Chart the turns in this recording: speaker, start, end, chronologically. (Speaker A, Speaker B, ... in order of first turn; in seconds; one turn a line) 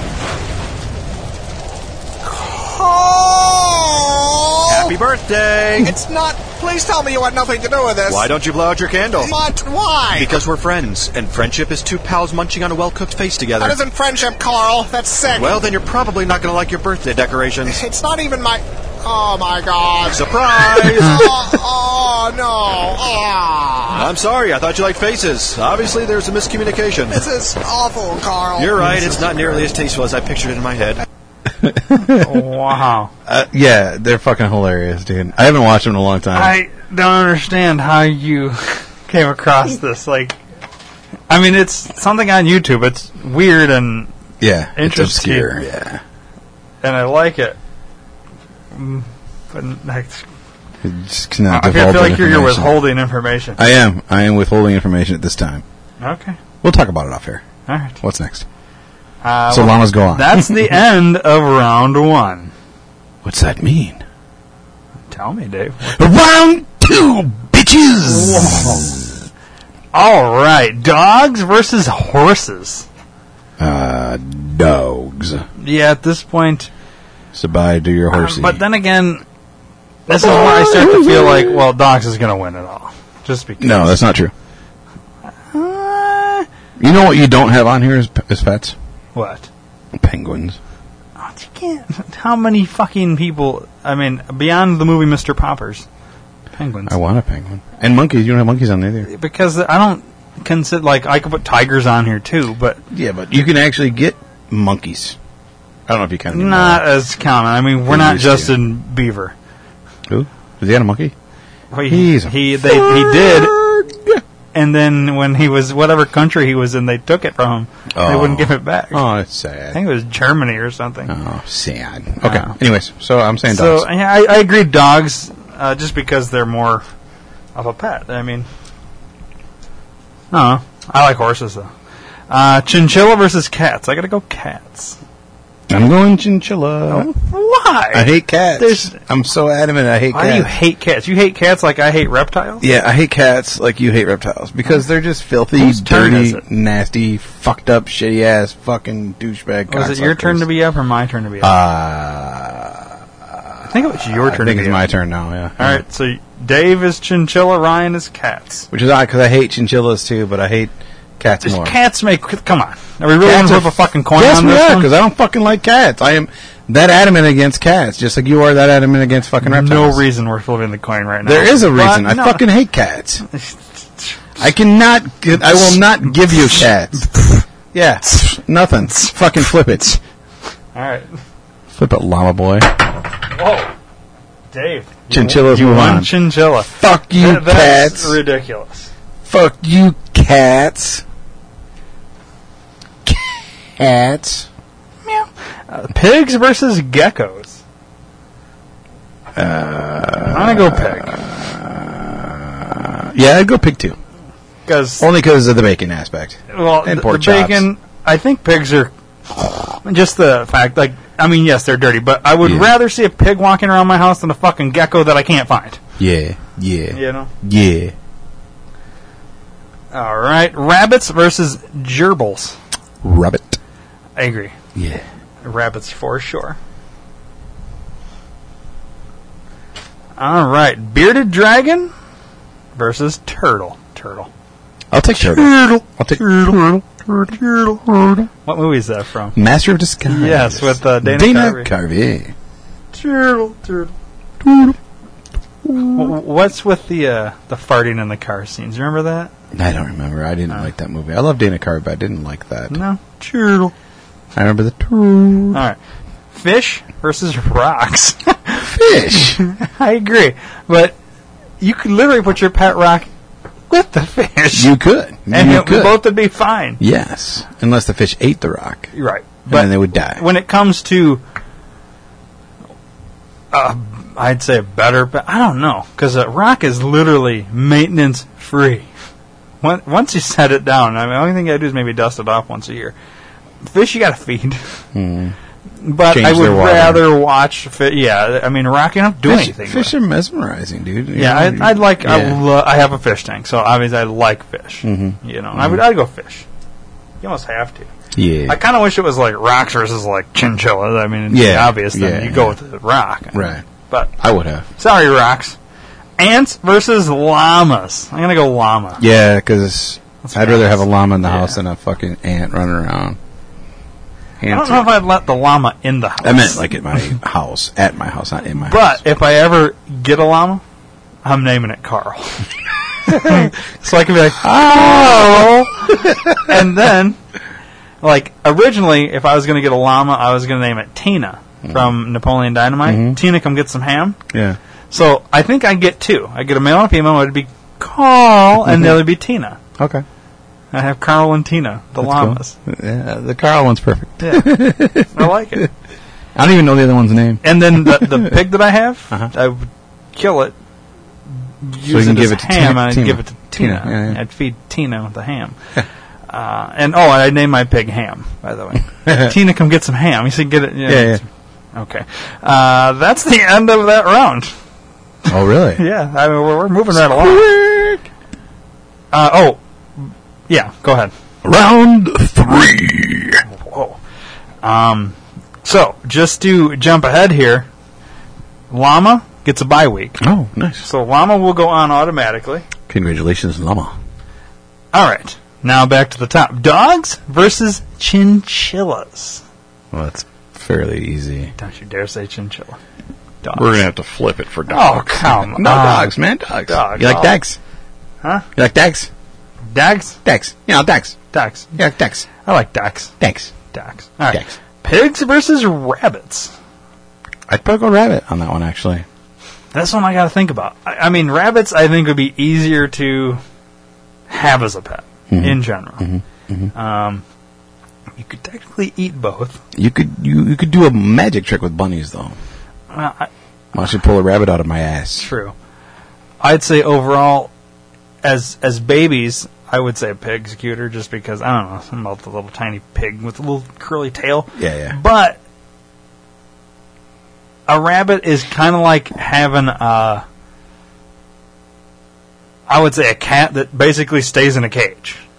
Speaker A: 2.2-4.9
Speaker B: 4.7-5.9
Speaker A: 5.8-8.3
Speaker B: 8.1-9.3
Speaker A: 9.2-10.4
Speaker B: 10.1-13.8
Speaker A: 13.6-15.7
Speaker B: 15.3-17.8
Speaker A: 17.6-24.1
Speaker B: 20.1-21.3
Speaker B: 23.9-27.2
Speaker A: 27.1-29.7
Speaker B: 28.6-31.0
Speaker C: 31.5-32.4
Speaker D: 32.1-33.1
Speaker C: 33.2-36.6
Speaker D: 36.3-40.4
Speaker D: 41.3-44.1
Speaker C: 44.4-46.0
Speaker D: 44.8-45.6
Speaker D: 46.8-47.6
Speaker D: 48.7-50.2
Speaker C: 50.8-52.9
Speaker D: 51.5-53.6
Speaker C: 53.5-55.6
Speaker D: 56.0-56.4
Speaker C: 56.6-57.4
Speaker D: 57.7-58.0
Speaker C: 58.0-58.5
Speaker D: 59.2-62.5
Speaker C: 59.5-60.7
Speaker C: 63.2-64.0
Speaker D: 65.1-66.0
Speaker C: 65.8-69.1
Speaker D: 68.0-69.1
Speaker D: 69.9-72.8
Speaker C: 73.6-75.5
Speaker D: 75.6-76.7
Speaker C: 77.3-78.6
Speaker D: 78.1-79.2
Speaker D: 80.1-84.0
Speaker C: 80.2-81.4
Speaker C: 83.6-84.3
Speaker D: 85.5-86.5
Speaker C: 86.8-88.8
Speaker D: 89.1-89.5
Speaker C: 89.9-90.6
Speaker D: 91.2-95.8
Speaker D: 96.5-97.0
Speaker C: 96.9-99.1
Speaker D: 99.1-102.8
Speaker C: 102.9-105.2
Speaker C: 105.9-106.8
Speaker D: 106.3-109.3
Speaker C: 107.8-108.5
Speaker C: 110.1-111.1
Speaker D: 111.7-113.5
Speaker C: 111.9-114.2
Speaker D: 114.5-119.0
Speaker C: 117.9-119.8
Speaker D: 119.7-121.1
Speaker C: 121.1-123.9
Speaker D: 122.2-122.5
Speaker D: 123.5-126.8
Speaker D: 127.5-128.5
Speaker D: 130.3-131.7
Speaker D: 132.3-135.0
Speaker C: 135.7-137.1
Speaker D: 136.9-138.9
Speaker C: 137.9-140.5
Speaker D: 140.1-142.7
Speaker C: 142.6-150.5
Speaker D: 145.6-146.4
Speaker D: 149.7-151.6
Speaker C: 151.4-155.8
Speaker D: 153.6-154.8
Speaker D: 155.6-158.7
Speaker C: 158.7-161.7
Speaker D: 161.4-164.9
Speaker C: 163.2-170.0
Speaker D: 169.4-172.4
Speaker C: 171.2-173.2
Speaker D: 173.3-174.4
Speaker C: 174.4-180.0
Speaker D: 176.3-177.3
Speaker D: 178.9-179.1
Speaker D: 180.7-181.2
Speaker C: 181.7-182.8
Speaker D: 183.3-183.7
Speaker D: 184.5-188.9
Speaker C: 185.1-188.2
Speaker C: 189.2-191.0
Speaker C: 193.0-194.4
Speaker D: 195.1-197.6
Speaker C: 199.3-204.0
Speaker D: 200.3-201.2
Speaker D: 204.7-205.1
Speaker C: 205.0-207.7
Speaker D: 206.5-208.9
Speaker D: 209.8-215.8
Speaker C: 212.4-212.7
Speaker C: 216.0-217.9
Speaker D: 216.9-217.3
Speaker D: 219.9-222.6
Speaker C: 223.0-223.6
Speaker D: 224.2-224.5
Speaker C: 224.7-225.0
Speaker D: 225.4-226.6
Speaker D: 230.2-231.9
Speaker D: 232.8-234.3
Speaker C: 234.9-238.3
Speaker D: 235.2-236.6
Speaker D: 237.3-237.8
Speaker D: 238.4-239.4
Speaker C: 239.3-242.3
Speaker D: 240.1-241.7
Speaker D: 242.9-243.9
Speaker C: 244.4-244.8
Speaker C: 245.6-246.1
Speaker D: 245.9-249.3
Speaker C: 249.5-252.8
Speaker D: 252.7-253.7
Speaker C: 254.3-255.6
Speaker D: 255.5-255.8
Speaker D: 256.3-260.9
Speaker C: 258.6-259.4
Speaker D: 261.6-263.1
Speaker D: 263.7-264.7
Speaker C: 264.5-266.0
Speaker D: 265.3-266.8
Speaker C: 266.8-268.9
Speaker D: 268.9-271.2
Speaker C: 269.5-270.2
Speaker D: 273.5-278.9
Speaker D: 279.6-282.9
Speaker D: 283.6-284.8
Speaker C: 284.9-285.4
Speaker D: 285.8-289.9
Speaker C: 286.1-287.1
Speaker C: 289.2-292.4
Speaker D: 291.1-296.4
Speaker C: 294.8-295.8
Speaker D: 297.2-297.9
Speaker C: 298.1-298.6
Speaker D: 298.5-304.1
Speaker C: 301.3-302.6
Speaker C: 303.3-303.6
Speaker C: 304.2-304.6
Speaker D: 304.8-305.6
Speaker D: 306.2-309.0
Speaker C: 309.0-313.2
Speaker D: 310.2-311.6
Speaker C: 314.4-314.9
Speaker D: 314.5-317.1
Speaker C: 316.2-319.0
Speaker D: 318.6-320.6
Speaker D: 321.2-322.5
Speaker D: 323.1-327.2
Speaker C: 323.1-323.5
Speaker C: 324.4-326.6
Speaker D: 328.0-334.2
Speaker C: 331.6-331.9
Speaker C: 332.8-333.2
Speaker C: 334.3-334.6
Speaker D: 334.9-339.6
Speaker C: 338.6-339.0
Speaker C: 339.8-340.0
Speaker D: 340.7-342.6
Speaker C: 342.0-345.7
Speaker D: 344.2-345.7
Speaker C: 346.3-348.4
Speaker D: 347.4-350.5
Speaker D: 351.6-355.6
Speaker C: 351.8-354.2
Speaker D: 356.3-364.5
Speaker C: 359.1-359.3
Speaker C: 360.9-361.2
Speaker C: 365.3-365.8
Speaker D: 365.8-367.5
Speaker C: 366.9-368.0
Speaker D: 369.1-371.1
Speaker C: 371.4-373.4
Speaker D: 373.5-374.0
Speaker D: 374.6-377.7
Speaker D: 378.7-380.2
Speaker C: 380.2-380.9
Speaker D: 380.8-382.6
Speaker C: 382.9-383.9
Speaker D: 384.9-389.4
Speaker C: 389.9-391.5
Speaker D: 391.6-392.8
Speaker D: 393.4-393.8
Speaker C: 393.5-397.6
Speaker D: 394.7-396.1
Speaker D: 396.6-397.4
Speaker C: 398.6-399.1
Speaker D: 399.7-400.2
Speaker C: 400.2-401.2
Speaker D: 401.3-401.8
Speaker C: 401.8-402.3
Speaker D: 402.4-403.1
Speaker C: 403.2-403.5
Speaker D: 403.7-406.5
Speaker C: 407.5-409.0
Speaker D: 409.7-413.4
Speaker D: 414.3-416.1
Speaker C: 415.3-416.7
Speaker D: 416.7-417.2
Speaker D: 418.2-419.6
Speaker C: 419.7-422.4
Speaker D: 422.9-423.3
Speaker C: 423.7-425.3
Speaker D: 425.2-425.5
Speaker D: 426.4-427.5
Speaker D: 428.2-435.4
Speaker C: 434.6-435.0
Speaker D: 437.7-440.2
Speaker D: 442.7-445.2